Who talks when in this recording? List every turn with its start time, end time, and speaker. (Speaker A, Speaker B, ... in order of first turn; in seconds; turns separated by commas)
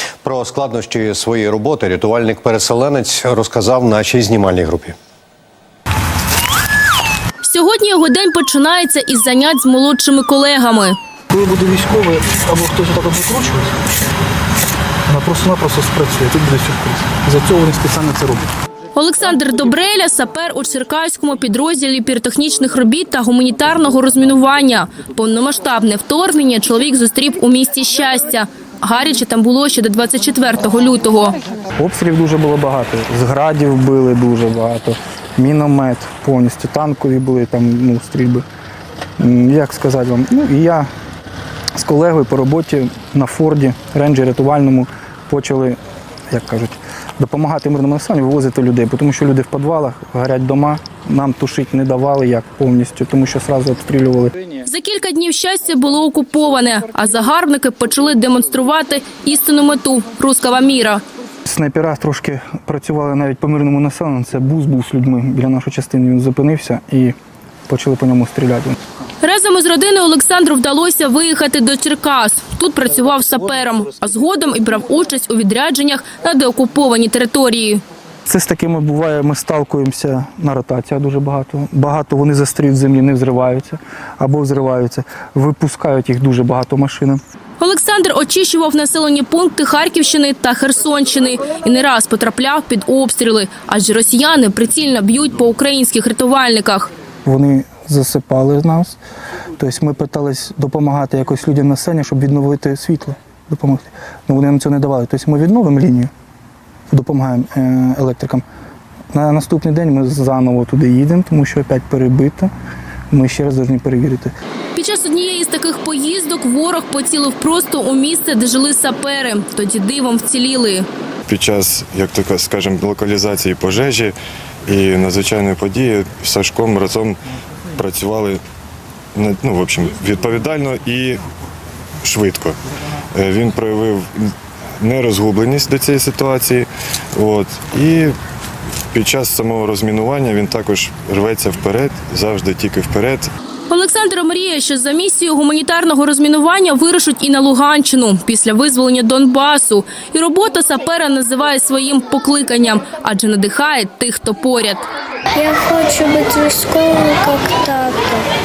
Speaker A: 0.2-5.0, Speaker B: 7.4-11.0, Speaker C: 11.3-13.7, Speaker C: 15.1-18.4, Speaker B: 18.9-31.4, Speaker C: 31.8-38.5, Speaker C: 39.2-40.9, Speaker C: 41.8-45.8, Speaker C: 46.3-54.6, Speaker B: 54.6-61.0, Speaker C: 61.4-67.2, Speaker C: 67.7-68.8, Speaker B: 69.2-77.8, Speaker C: 78.2-87.2, Speaker B: 87.6-96.9, Speaker C: 97.2-99.0, Speaker C: 99.6-106.1, Speaker C: 106.9-108.4, Speaker C: 109.1-112.5, Speaker C: 113.1-114.3, Speaker B: 114.7-120.8, Speaker D: 121.3-124.2, Speaker D: 124.7-127.2, Speaker D: 127.8-128.4, Speaker D: 129.2-131.2, Speaker D: 132.0-132.6, Speaker D: 133.2-138.2, Speaker D: 138.9-143.3, Speaker B: 143.7-154.8, Speaker E: 155.3-158.2